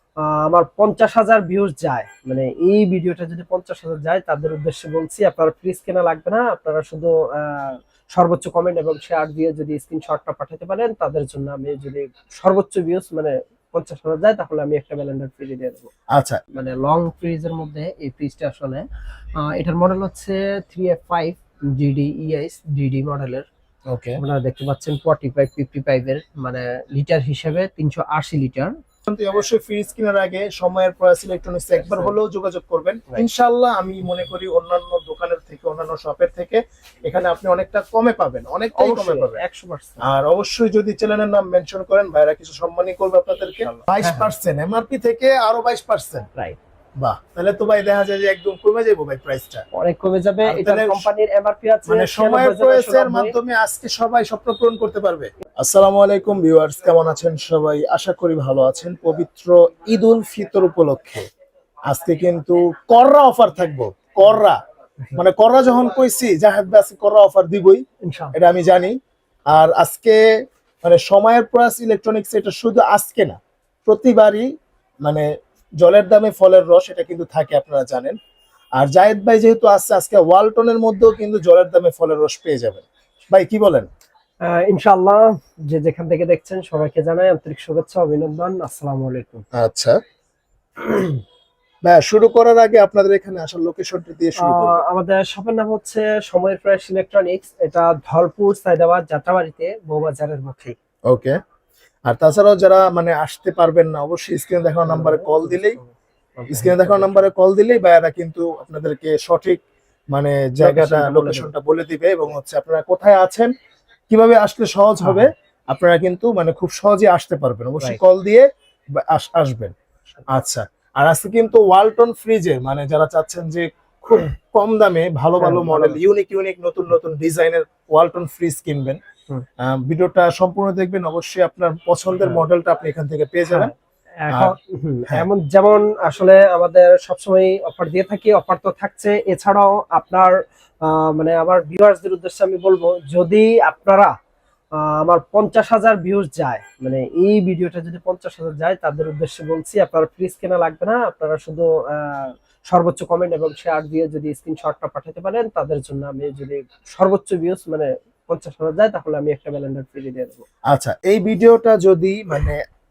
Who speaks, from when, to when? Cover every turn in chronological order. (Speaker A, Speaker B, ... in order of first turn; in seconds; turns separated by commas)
Speaker A: 0.2-15.9, Speaker B: 16.1-16.4, Speaker A: 16.5-18.9, Speaker A: 19.4-23.4, Speaker B: 23.9-24.2, Speaker A: 24.2-28.7, Speaker B: 29.1-39.4, Speaker A: 31.8-32.1, Speaker A: 38.7-40.0, Speaker B: 40.0-46.3, Speaker A: 43.6-44.3, Speaker B: 47.0-49.6, Speaker A: 49.7-53.3, Speaker B: 50.4-51.1, Speaker B: 51.9-61.2, Speaker B: 61.9-64.6, Speaker B: 65.1-69.0, Speaker A: 68.0-68.3, Speaker B: 69.5-70.2, Speaker B: 70.8-74.5, Speaker B: 75.8-78.2, Speaker B: 78.8-83.9, Speaker A: 84.4-89.5, Speaker B: 89.5-90.0, Speaker A: 90.8-91.2, Speaker B: 91.8-94.8, Speaker A: 94.4-100.8, Speaker B: 101.1-101.4, Speaker B: 102.0-105.8, Speaker A: 104.8-107.3, Speaker B: 106.5-109.6, Speaker B: 110.1-113.5, Speaker A: 110.6-111.5, Speaker B: 114.1-119.7, Speaker A: 115.0-115.3, Speaker B: 120.3-129.0, Speaker A: 125.4-126.0, Speaker B: 129.6-133.7, Speaker A: 132.1-132.4, Speaker A: 133.5-144.1, Speaker B: 134.3-134.5, Speaker A: 144.7-160.5, Speaker B: 160.7-162.6